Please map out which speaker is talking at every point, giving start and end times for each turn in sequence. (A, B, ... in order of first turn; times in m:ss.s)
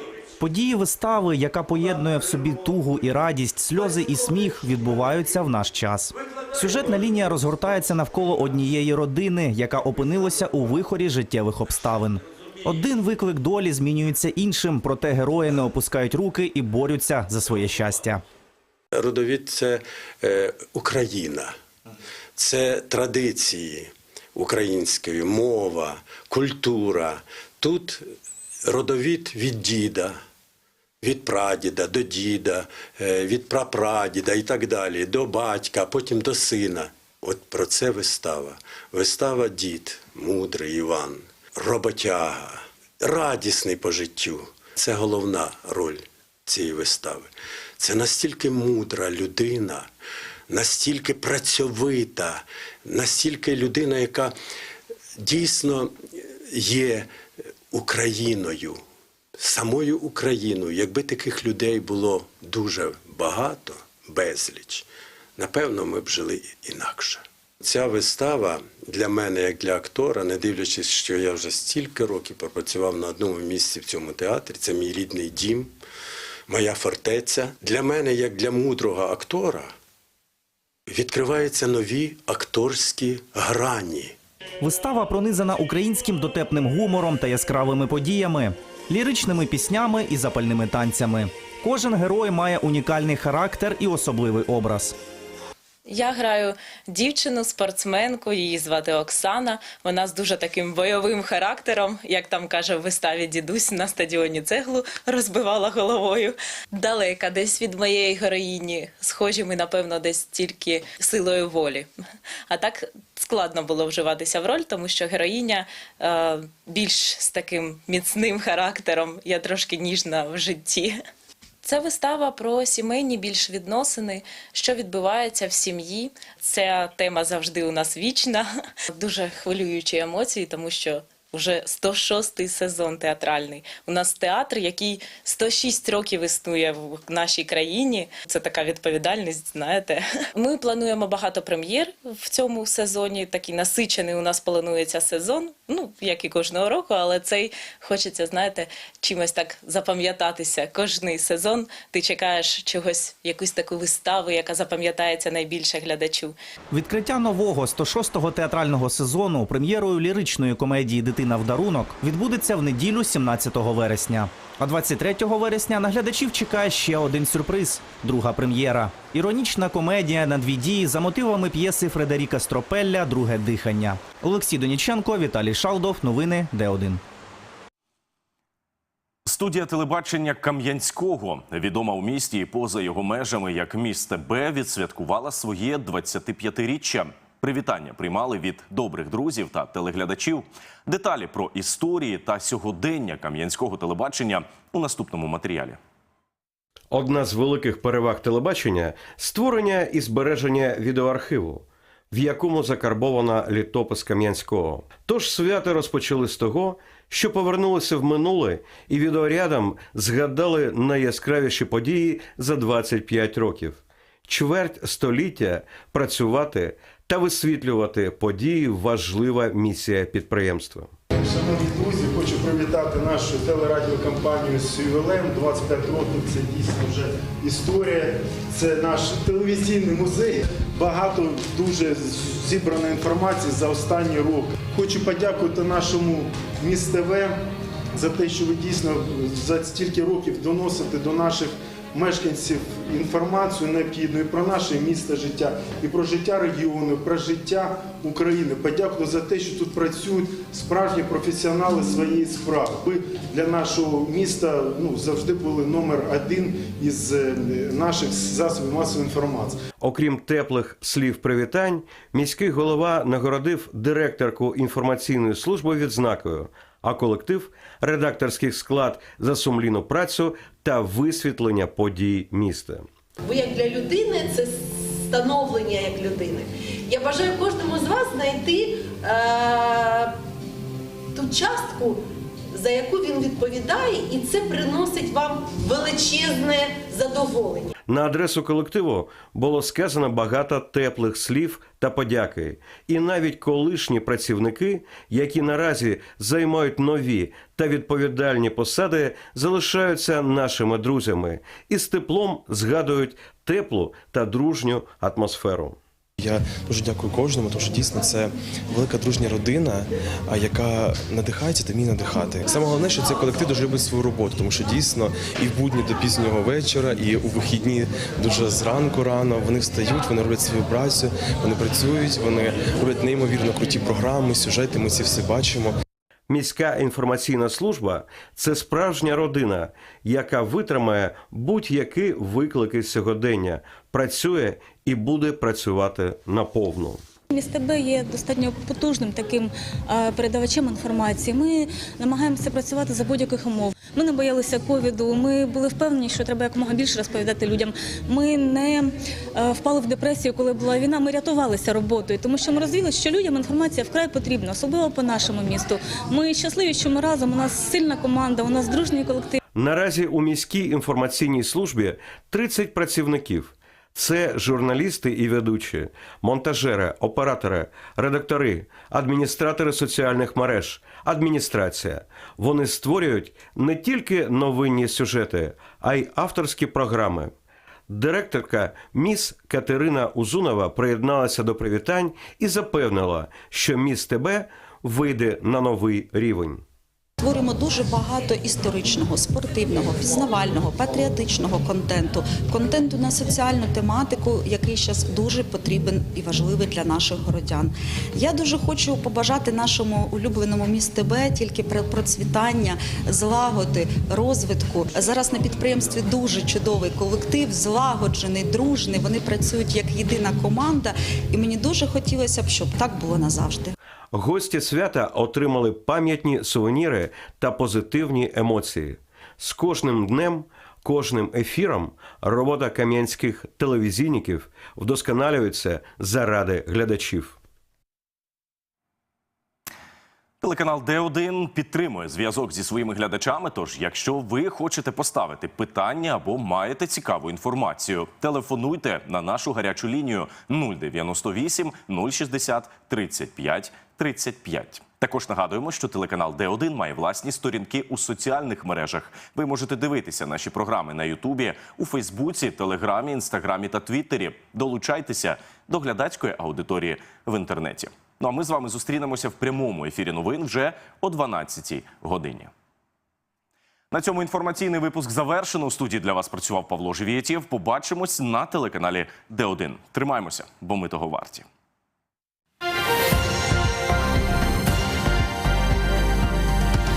0:00.4-0:18.2 A
0:18.9-0:21.5 B
0:22.4-0:28.0 B
0:28.6-0:30.2 B
0:31.0-0:49.8 B
0:50.5-0:54.3 B
0:55.2-0:55.9 B
0:56.5-0:57.1 B
0:57.7-0:58.8 B
0:59.4-1:04.8 B
1:05.4-1:15.7 B
1:16.5-1:19.7 B
1:20.9-1:24.1 B
1:24.6-1:34.9 A
1:35.9-1:51.9 C
1:52.5-2:01.0 C
2:01.6-2:36.3 C
2:36.7-2:57.0 A
2:59.2-3:15.8 D
3:16.9-3:40.9 E
3:41.1-3:57.3 F
3:57.9-4:19.6 F
4:19.8-4:32.8 E
4:33.2-4:40.1 G
4:41.1-4:47.7 G
4:47.9-5:05.8 E
5:06.2-5:25.8 H
5:26.3-5:37.0 E
5:37.3-5:59.4 I
5:59.5-6:17.3 E
6:17.9-6:26.6 E
6:27.2-6:53.7 J
6:54.1-7:07.4 E
7:10.4-7:42.5 D
7:43.9-7:51.4 D